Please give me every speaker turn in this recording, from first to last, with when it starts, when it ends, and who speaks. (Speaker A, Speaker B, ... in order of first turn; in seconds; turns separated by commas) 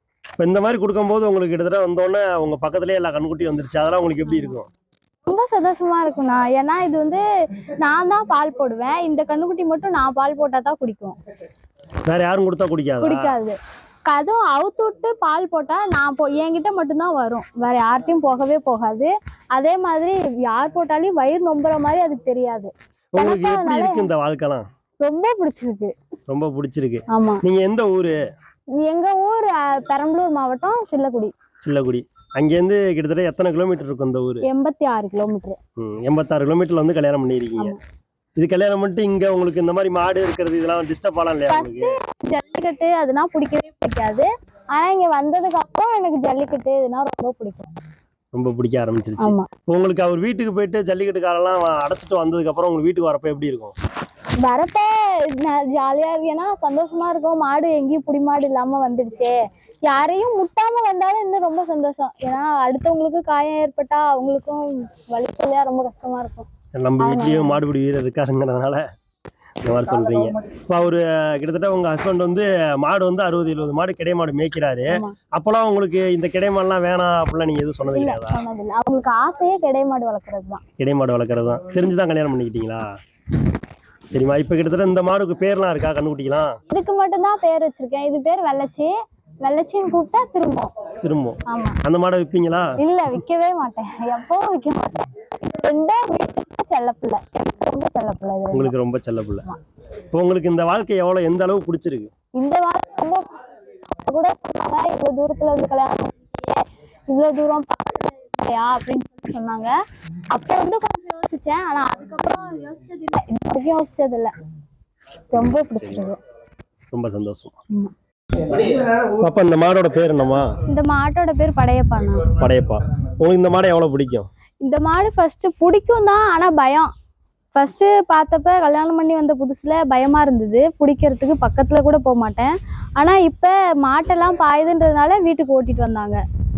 Speaker A: 0.4-4.7, Speaker B: 4.3-4.5, Speaker B: 5.3-11.2, Speaker A: 12.1-13.3, Speaker B: 13.0-24.1, Speaker A: 23.1-24.6, Speaker B: 25.0-25.9, Speaker A: 26.3-28.1, Speaker B: 27.1-27.4, Speaker B: 28.8-31.3, Speaker A: 31.6-34.5, Speaker B: 34.4-35.6, Speaker A: 35.8-37.8, Speaker A: 38.4-42.0, Speaker B: 41.5-47.7, Speaker A: 48.3-53.7, Speaker B: 49.2-49.5, Speaker B: 54.4-59.3, Speaker B: 59.9-66.5, Speaker A: 66.8-68.8, Speaker B: 67.0-67.6, Speaker A: 69.6-78.4, Speaker B: 69.7-70.5, Speaker B: 74.9-75.2, Speaker B: 77.9-80.6, Speaker A: 80.8-82.8, Speaker A: 84.1-86.6, Speaker B: 86.7-88.9, Speaker B: 89.4-90.7, Speaker A: 91.0-92.7, Speaker B: 91.5-91.8, Speaker B: 92.8-98.7, Speaker A: 98.5-99.4, Speaker A: 100.1-102.1, Speaker B: 102.4-103.2, Speaker B: 104.1-109.7, Speaker B: 110.3-114.3, Speaker B: 115.3-116.2, Speaker A: 115.4-116.1, Speaker A: 116.9-117.6, Speaker A: 118.5-120.5, Speaker B: 120.7-122.3, Speaker A: 122.4-124.3, Speaker B: 124.6-126.9, Speaker B: 127.5-136.2